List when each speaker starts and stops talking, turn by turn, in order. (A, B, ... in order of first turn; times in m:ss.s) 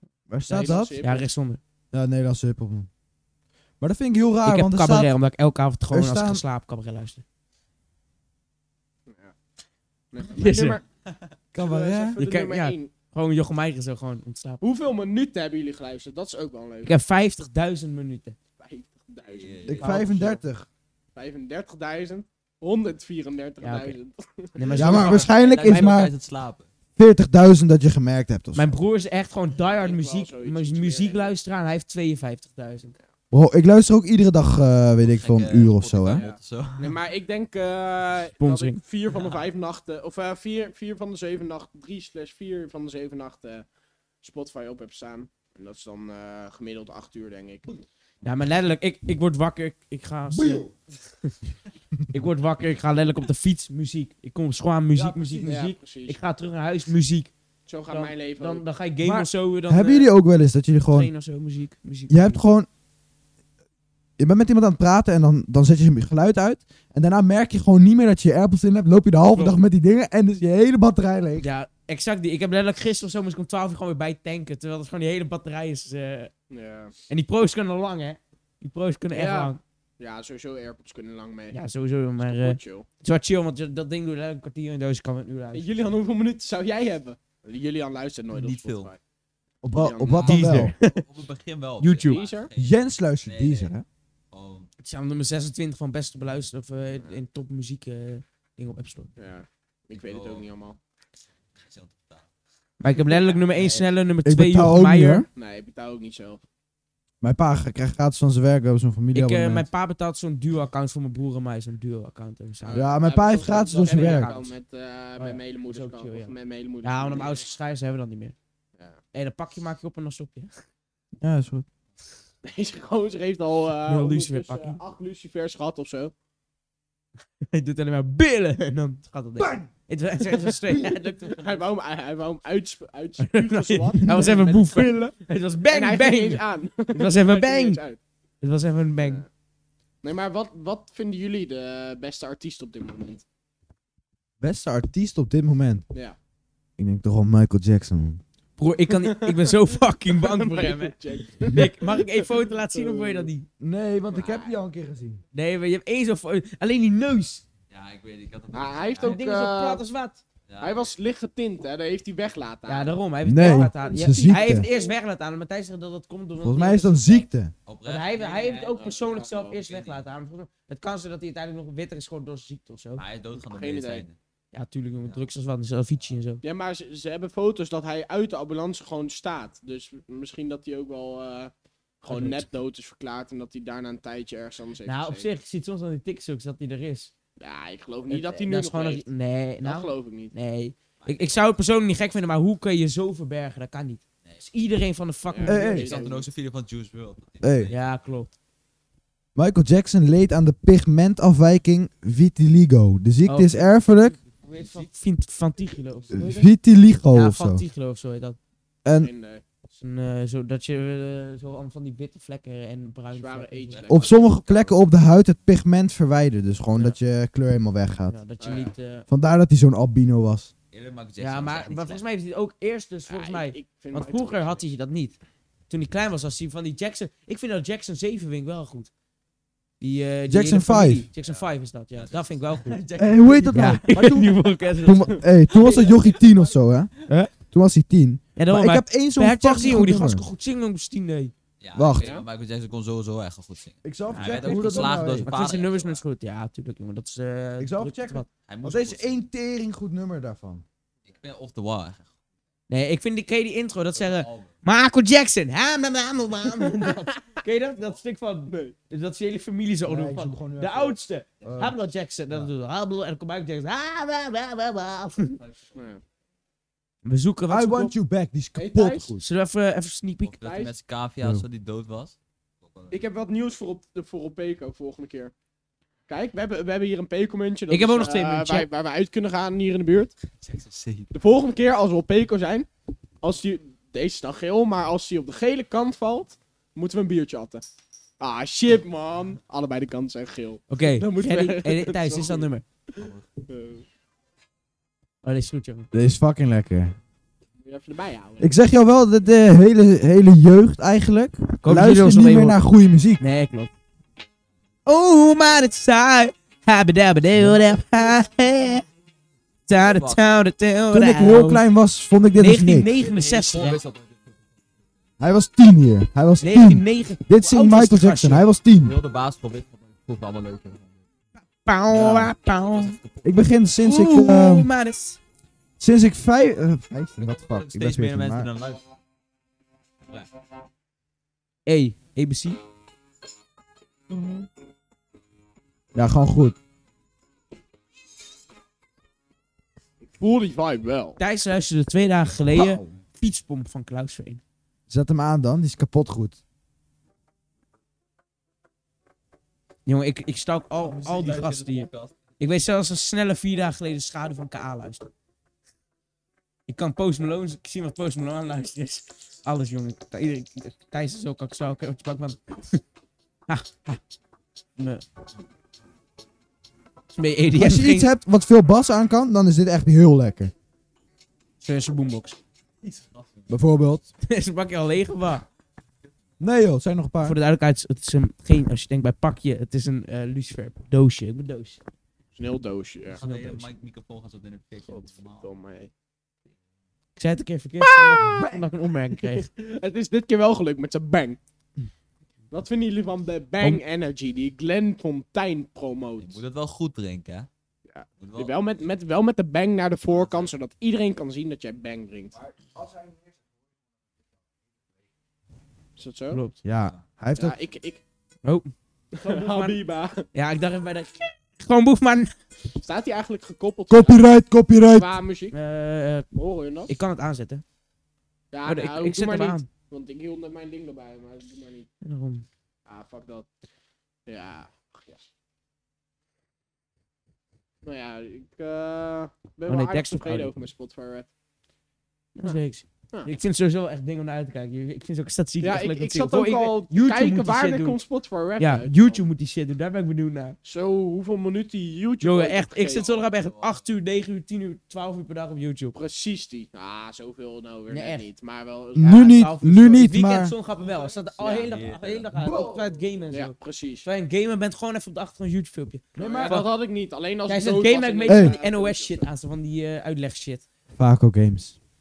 0:00.3-0:01.0 A
0:00.5-0:01.3 B
0:01.0-0:01.6 C
0:01.9-0:02.9 A
0:03.8-0:05.1 A
0:04.4-0:07.2 C
0:05.9-0:06.4 A
0:09.1-0:09.3 B
0:10.1-0:10.8 B
0:10.3-0:10.8 C
0:11.5-0:12.2 A
0:11.6-0:12.9 B
0:12.2-0:14.6 C
0:14.6-0:17.0 B
0:16.8-0:18.3 C
0:18.6-0:20.4 B
0:19.3-0:19.9 D
0:19.6-0:20.6 A
0:19.8-0:20.4 C
0:21.1-0:25.8 B
0:23.6-0:24.0 C
0:24.6-0:25.9 C
0:24.7-0:26.1 A
0:24.8-0:26.7 D
0:27.0-0:28.7 A
0:28.5-0:33.0 C
0:29.8-0:31.3 B
0:33.3-0:36.2 A
0:35.0-0:37.0 D
0:36.0-0:43.7 B
0:38.4-0:38.8 C
0:44.2-0:47.6 B
0:48.2-0:50.7 C
0:50.3-0:50.7 A
0:52.1-0:57.3 C
0:54.9-0:55.6 A
0:55.4-0:56.2 B
0:57.6-0:58.6 B
0:57.9-1:00.1 C
0:59.0-1:01.1 A
1:00.9-1:02.4 C
1:02.1-1:02.7 A
1:04.2-1:11.4 A
1:09.3-1:09.6 C
1:11.4-1:16.3 C
1:16.5-1:16.9 B
1:17.1-1:19.6 C
1:19.1-1:21.6 B
1:21.5-1:25.7 C
1:22.2-1:22.9 B
1:25.5-1:29.0 B
1:28.3-1:28.9 D
1:29.6-1:30.7 A
1:29.7-1:30.3 B
1:30.1-1:33.7 D
1:30.2-1:31.0 C
1:31.8-1:32.2 C
1:32.1-1:32.5 B
1:32.6-1:33.8 A
1:34.3-1:34.7 D
1:34.8-1:39.1 C
1:39.2-1:40.8 B
1:39.9-1:40.5 D
1:41.6-1:42.2 D
1:42.8-1:45.3 C
1:43.5-1:43.8 B
1:44.2-1:45.2 A
1:45.3-1:46.4 B
1:47.2-1:49.6 A
1:49.1-1:52.9 C
1:52.6-1:57.5 B
1:52.7-1:54.3 A
1:53.8-1:54.5 C
1:55.2-1:58.4 C
1:59.1-2:00.6 C
2:01.2-2:01.6 A
2:02.4-2:06.1 B
2:03.9-2:04.8 C
2:07.5-2:11.4 C
2:09.4-2:09.7 A
2:10.8-2:15.1 B
2:13.2-2:17.8 C
2:14.0-2:14.4 A
2:15.7-2:18.0 B
2:18.4-2:19.2 C
2:19.0-2:19.3 B
2:20.0-2:23.2 B
2:24.4-2:25.8 A
2:26.8-2:28.2 A
2:28.6-2:33.5 C
2:29.0-2:29.5 B
2:30.1-2:33.3 B
2:33.6-2:35.2 A
2:34.1-2:34.5 B
2:35.3-2:37.4 C
2:37.7-2:39.2 D
2:38.5-2:39.8 B
2:39.0-2:40.2 C
2:40.5-2:40.9 D
2:40.6-2:45.0 B
2:42.6-2:47.3 C
2:43.2-2:44.6 A
2:46.4-2:47.5 A
2:47.6-2:48.6 D
2:47.8-2:53.0 C
2:48.4-2:49.6 B
2:49.6-2:50.0 D
2:53.0-2:54.2 D
2:53.4-2:54.0 B
2:54.5-2:56.4 C
2:56.4-3:05.3 B
3:02.1-3:02.4 C
3:04.8-3:07.1 C
3:07.4-3:09.0 B
3:08.1-3:16.1 C
3:09.6-3:10.3 B
3:11.0-3:12.0 D
3:15.3-3:16.3 B
3:15.4-3:15.9 A
3:15.7-3:17.8 D
3:17.4-3:17.7 A
3:17.7-3:18.3 C
3:19.3-3:24.2 A
3:23.2-3:23.6 C
3:24.4-3:26.5 C
3:24.5-3:24.9 D
3:26.1-3:27.6 A
3:27.1-3:28.4 C
3:28.8-3:29.1 A
3:29.0-3:29.4 B
3:29.7-3:33.8 C
3:33.1-3:34.4 B
3:33.7-3:34.8 D
3:33.9-3:38.2 A
3:38.1-3:39.0 C
3:38.4-3:38.7 B
3:39.1-3:40.5 A
3:40.7-3:42.0 D
3:41.2-3:45.2 C
3:43.1-3:44.6 B
3:45.7-3:48.9 C
3:49.8-3:52.8 C
3:50.3-3:51.1 A
3:51.2-3:53.8 D
3:53.0-4:00.2 A
3:53.5-3:55.8 C
3:55.6-3:56.3 D
3:58.4-4:01.3 C
4:01.6-4:06.0 D
4:01.7-4:02.1 A
4:02.0-4:02.2 B
4:03.8-4:05.3 A
4:04.1-4:08.3 C
4:07.6-4:10.6 A
4:08.5-4:09.2 D
4:11.0-4:12.1 D
4:12.7-4:25.4 C
4:13.9-4:14.5 D
4:18.5-4:18.7 B
4:19.8-4:21.7 A
4:25.2-4:25.9 D
4:25.7-4:26.0 B
4:27.0-4:27.9 C
4:27.5-4:29.2 A
4:28.6-4:29.1 B
4:29.2-4:30.4 C
4:30.2-4:33.0 D
4:30.4-4:30.7 B
4:32.9-4:35.3 B
4:36.1-4:40.1 B
4:37.7-4:38.7 C
4:40.4-4:41.1 D
4:41.1-4:42.7 B
4:43.2-4:47.6 B
4:48.2-4:53.8 B
4:50.7-4:52.6 C
4:55.2-4:55.9 C
4:55.9-4:57.0 A
4:57.6-4:58.5 B
4:58.4-5:03.2 A
5:01.6-5:02.6 C
5:03.2-5:03.7 C
5:04.8-5:08.8 C
5:07.3-5:07.7 A
5:09.7-5:11.6 C
5:09.8-5:10.2 D
5:10.9-5:12.9 A
5:12.4-5:13.8 C
5:13.0-5:14.4 D
5:15.2-5:19.0 A
5:16.4-5:18.4 C
5:18.8-5:21.0 D
5:21.4-5:23.0 C
5:21.9-5:22.3 A
5:22.6-5:23.4 D
5:23.2-5:24.7 A
5:23.8-5:25.2 C
5:25.8-5:28.5 A
5:27.2-5:28.9 D
5:31.6-5:32.6 C
5:35.9-5:36.6 A
5:40.0-5:41.2 B
5:41.2-5:44.4 C
5:42.5-5:42.9 A
5:44.9-5:46.4 A
5:49.8-5:55.1 C
5:50.8-5:52.2 D
5:56.7-6:02.8 C
6:03.5-6:04.0 C
6:04.8-6:05.0 C
6:07.1-6:08.1 C
6:07.6-6:10.5 A
6:11.6-6:12.4 C
6:12.8-6:13.5 D
6:13.5-6:14.0 A
6:14.2-6:15.4 C
6:16.4-6:17.4 A
6:17.2-6:21.8 C
6:22.3-6:23.2 B
6:23.1-6:25.5 D
6:23.2-6:23.7 C
6:24.9-6:25.9 B
6:27.2-6:29.5 C
6:27.8-6:28.4 B
6:28.2-6:28.6 A
6:29.2-6:31.4 B
6:32.5-6:36.4 B
6:36.2-6:37.5 D
6:37.9-6:42.4 B
6:38.2-6:38.7 D
6:40.1-6:40.5 D
6:42.7-6:43.0 A
6:46.0-6:46.4 B
6:46.3-6:46.6 C
6:46.6-6:47.5 A
6:47.4-6:48.0 B
6:48.4-6:49.8 C
6:49.1-6:50.3 B
6:50.3-6:52.3 C
6:52.8-6:54.2 B
6:53.9-6:55.1 A
6:54.9-6:55.5 B
6:55.5-6:56.3 C
6:56.3-6:56.9 B
6:56.9-6:57.6 C
6:58.5-7:01.9 B
6:58.6-6:59.7 C
7:02.0-7:02.4 C
7:02.8-7:03.5 B
7:04.2-7:05.2 B
7:07.8-7:11.3 B
7:09.7-7:10.5 C
7:12.3-7:18.0 C
7:15.6-7:19.2 B
7:18.6-7:20.6 C
7:20.6-7:23.1 B
7:22.2-7:26.0 C
7:23.0-7:23.8 D
7:25.9-7:29.5 B
7:27.9-7:28.2 C
7:28.9-7:30.5 A
7:29.0-7:36.7 C
7:30.9-7:31.7 B
7:31.6-7:32.3 D
7:32.3-7:32.9 A
7:33.3-7:34.0 B
7:36.1-7:36.6 A
7:36.2-7:39.3 B
7:37.4-7:40.6 C
7:38.3-7:38.6 A
7:41.0-7:41.8 A